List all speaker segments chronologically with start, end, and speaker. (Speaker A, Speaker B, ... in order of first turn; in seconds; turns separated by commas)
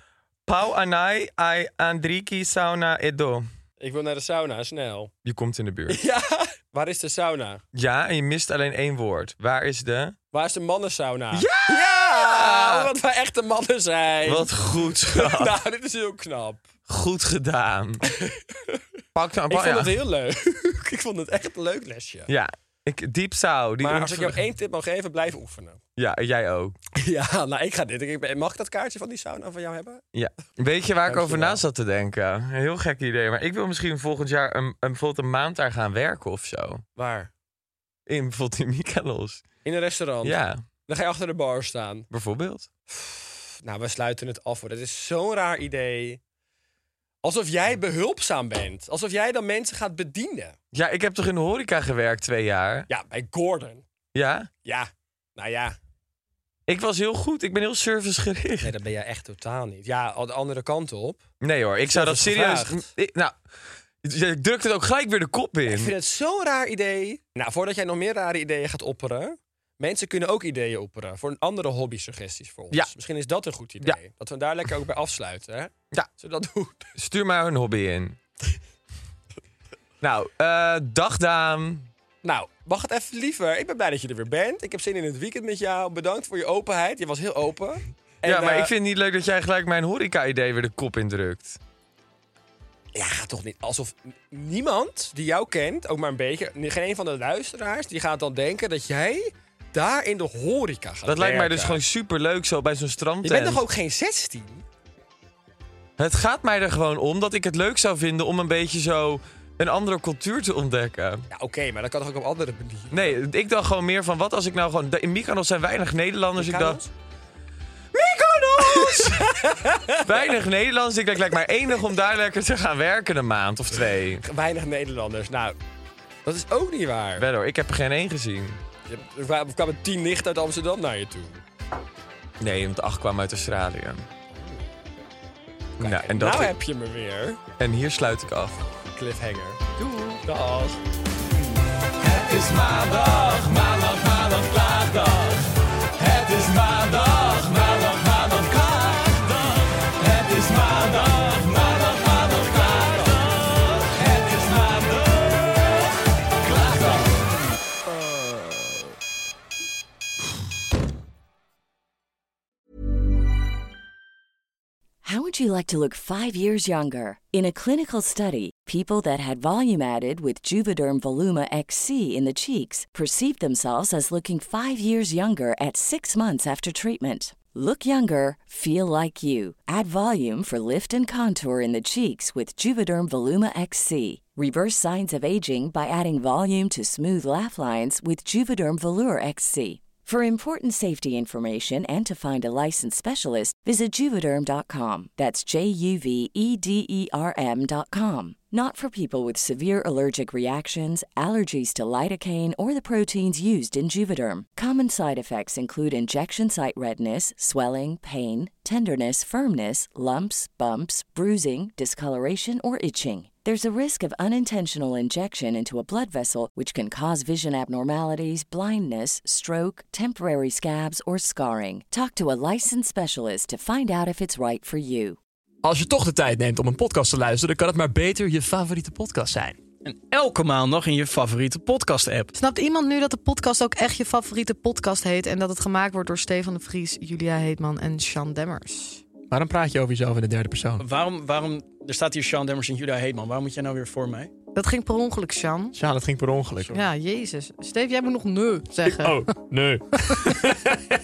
Speaker A: 0.5-3.5, Speaker B: 3.8-5.1, Speaker A: 5.2-6.0, Speaker B: 5.9-7.6, Speaker A: 7.7-10.2, Speaker B: 10.3-16.7, Speaker A: 11.3-12.9, Speaker A: 14.2-15.6, Speaker A: 16.9-18.1, Speaker B: 18.1-18.8, Speaker A: 19.1-19.9, Speaker B: 19.5-22.3, Speaker A: 22.3-24.4, Speaker B: 23.8-25.8, Speaker A: 26.0-26.8, Speaker B: 26.9-30.0, Speaker A: 30.1-36.8, Speaker B: 31.0-31.6, Speaker B: 37.0-37.3, Speaker A: 38.1-39.5, Speaker B: 39.6-42.0, Speaker A: 40.2-40.6, Speaker A: 42.1-42.7, Speaker B: 42.9-46.2, Speaker B: 47.2-50.6, Speaker A: 50.7-52.9, Speaker B: 52.9-53.8, Speaker A: 54.1-54.5, Speaker B: 54.6-55.8, Speaker A: 56.7-58.7, Speaker B: 58.6-61.2, Speaker A: 61.4-63.4, Speaker B: 61.8-62.9, Speaker A: 64.0-65.9, Speaker B: 65.7-76.9, Speaker A: 77.0-78.2, Speaker A: 80.0-81.9, Speaker B: 82.2-88.7, Speaker A: 88.2-91.6, Speaker B: 92.9-101.8, Speaker A: 101.0-103.6, Speaker B: 103.2-104.6, Speaker A: 106.0-111.2, Speaker B: 111.3-113.2, Speaker A: 112.9-116.8, Speaker B: 116.4-116.9, Speaker A: 117.9-119.4, Speaker B: 118.6-120.4, Speaker A: 120.0-124.2, Speaker B: 124.2-125.5, Speaker B: 126.2-127.3, Speaker A: 127.2-128.6, Speaker B: 128.9-131.4, Speaker A: 132.4-134.1, Speaker A: 135.8-136.5, Speaker B: 135.8-137.4, Speaker A: 137.6-138.6, Speaker B: 138.8-140.8, Speaker A: 139.8-140.2, Speaker A: 141.9-155.8, Speaker A: 156.4-157.3, Speaker C: 165.0-225.2, Speaker D: 225.6-229.6, Speaker E: 229.8-232.3, Speaker F: 232.3-239.1, Speaker D: 239.3-240.8, Speaker E: 240.8-244.3, Speaker F: 244.5-245.8, Speaker D: 245.7-246.7, Speaker E: 246.6-246.9, Speaker F: 246.7-249.3, Speaker D: 248.8-250.8